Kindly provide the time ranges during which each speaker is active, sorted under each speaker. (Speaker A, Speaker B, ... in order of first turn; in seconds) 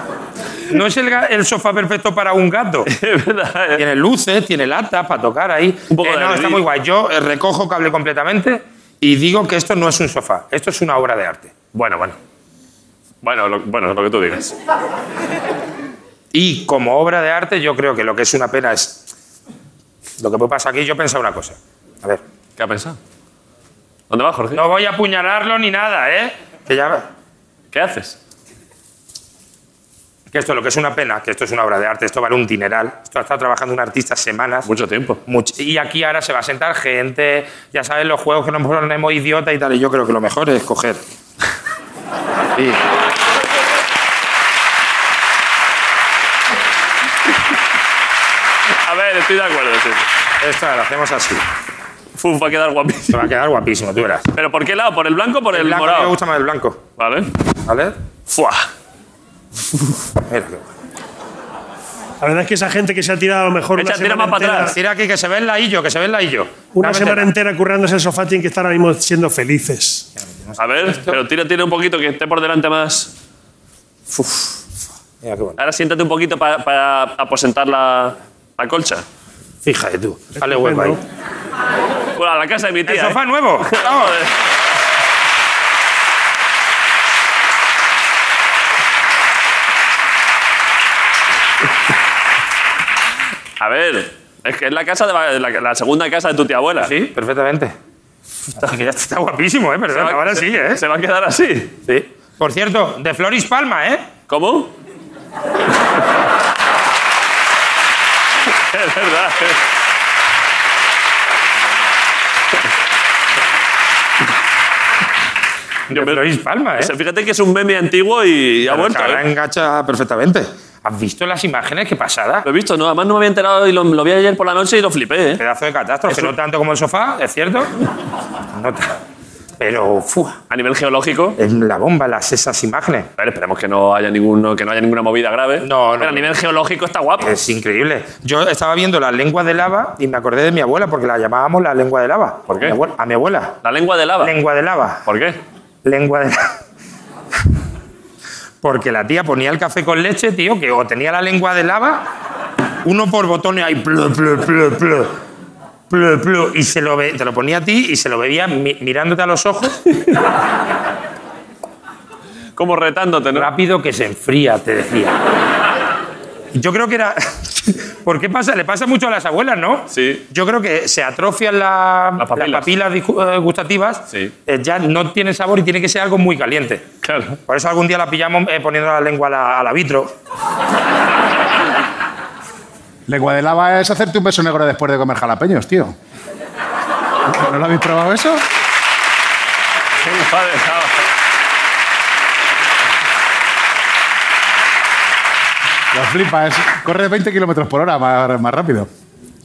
Speaker A: 0.7-2.9, 3.8-11.5, 16.3-19.0, 20.2-22.2, 24.6-27.1, 30.3-34.7, 35.3-41.0, 50.4-51.5, 53.1-54.3, 55.5-56.8, 57.6-58.0, 60.2-60.6, 64.7-67.3, 70.5-71.2, 75.2-75.6, 79.6-81.0, 82.9-84.2, 96.8-97.7, 98.6-100.8, 101.9-104.1, 115.9-116.9, 118.7-122.5, 125.4-127.8, 128.6-129.0, 129.6-130.4, 131.4-133.1, 135.6-136.3, 137.2-143.6, 144.2-145.0, 145.8-146.5, 148.6-152.1, 152.8-155.2, 155.9-159.8, 163.3-165.2, 166.5-176.8, 177.5-180.1
Speaker B: 2.9-3.8, 5.9-6.6, 11.7-12.2, 13.2-14.5, 22.6-23.0, 24.1-24.6, 27.7-28.2, 34.7-35.2, 48.9-50.1, 52.2-53.2, 54.4-56.1, 57.0-57.3, 58.3-58.7, 63.8-64.8, 70.6-73.1, 74.1-74.6, 75.6-79.0, 82.2-83.2, 83.7-84.3, 93.6-96.9, 99.9-101.7, 104.3-104.7, 108.6-109.6, 115.9-116.2, 116.8-119.2, 122.5-125.4, 130.5-131.4, 133.2-137.3, 142.5-142.8, 143.6-144.3, 145.1-145.4, 162.6-163.5, 169.9-170.2, 172.2-172.7, 177.0-177.4, 190.0-191.1
Speaker C: 62.2-64.8, 66.8-70.1, 80.4-81.0
Speaker D: 183.1-186.0, 187.3-188.4, 195.9-198.9